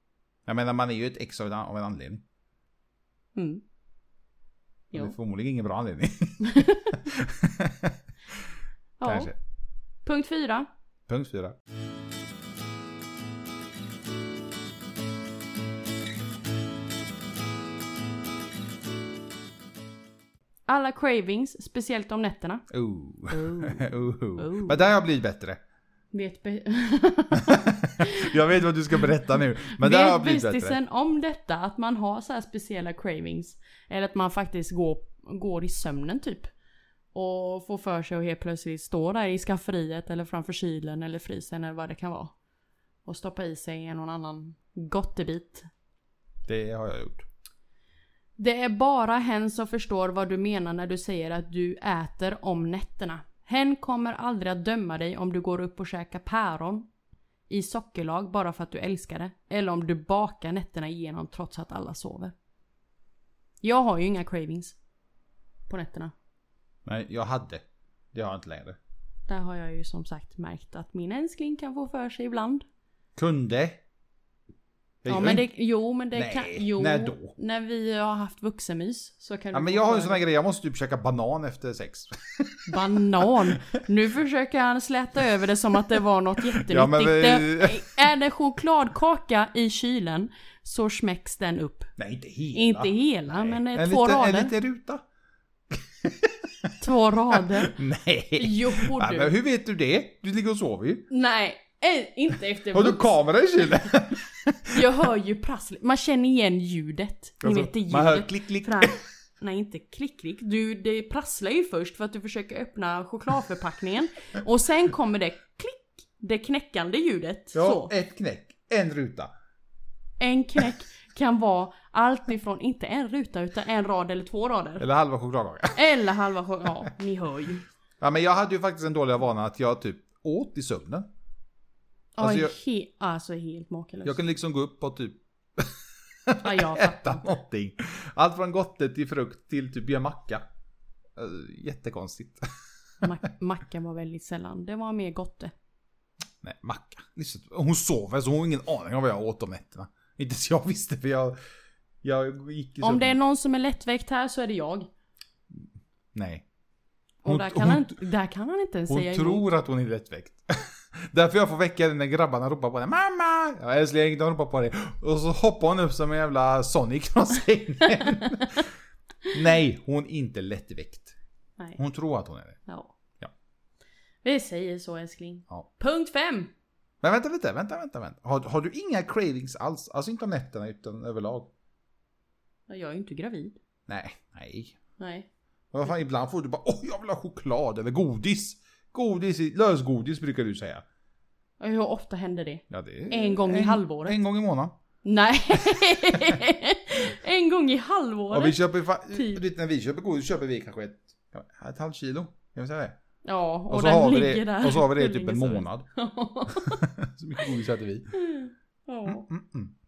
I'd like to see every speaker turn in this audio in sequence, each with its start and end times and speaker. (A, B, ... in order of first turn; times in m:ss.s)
0:00.5-0:02.2 A
0:03.4-0:03.6 B
0:04.9-0:08.0 A
0:06.4-0:07.0 B
0:09.0-0:09.3 B
0:09.0-0:09.4 A
0:10.0-0:10.7 B
0:11.1-0:11.6 A
0:20.7-0:22.7 B
0:22.7-0:25.6 A
0:23.3-0:24.8 B
0:26.1-0:28.4 B
0:27.3-0:30.8 A
0:29.8-0:36.5 B
0:37.1-0:42.3 B
0:43.0-0:45.7 B
0:46.5-0:47.3 A
0:48.4-0:56.9 B
0:57.5-1:02.3 B
1:03.6-1:04.8 B
1:05.7-1:06.1 B
1:06.9-1:08.8 A
1:09.3-1:12.6 B
1:13.2-1:13.8 A
1:15.0-1:15.5 A
1:15.1-1:20.2 B
1:16.2-1:17.3 A
1:19.5-1:23.8 A
1:22.7-1:31.9 B
1:26.5-1:28.0 A
1:32.0-1:35.0 A
1:32.5-1:34.5 B
1:35.7-1:36.8 A
1:36.8-1:37.8 B
1:37.3-1:41.1 A
1:38.4-1:39.3 B
1:41.1-1:43.1 B
1:42.7-1:44.8 A
1:44.7-1:57.9 B
1:47.4-1:49.0 A
1:57.5-1:59.3 A
2:00.2-2:04.8 B
2:04.8-2:05.8 A
2:05.7-2:07.6 B
2:08.0-2:11.1 A
2:12.2-2:14.2 B
2:12.2-2:12.5 A
2:14.0-2:20.4 A
2:16.4-2:17.3 B
2:21.2-2:22.4 A
2:23.0-2:25.5 B
2:26.4-2:31.4 A
2:32.0-2:33.2 A
2:32.8-2:34.9 B
2:35.5-2:36.4 A
2:37.2-2:39.5 B
2:37.2-2:38.0 A
2:38.9-2:48.7 A
2:49.3-2:51.2 A
2:51.8-2:52.6 A
2:52.7-2:52.9 B
2:54.2-2:56.5 B
2:57.0-3:01.5 A
3:02.7-3:03.6 B
3:03.9-3:04.8 A
3:05.0-3:05.3 B
3:05.7-3:10.8 A
3:11.6-3:14.2 B
3:12.7-3:14.8 A
3:15.0-3:19.4 B
3:15.7-3:16.3 A
3:18.3-3:23.0 A
3:23.2-3:26.8 B
3:23.7-3:25.9 A
3:26.5-3:28.2 A
3:28.1-3:29.3 B
3:29.1-3:29.7 A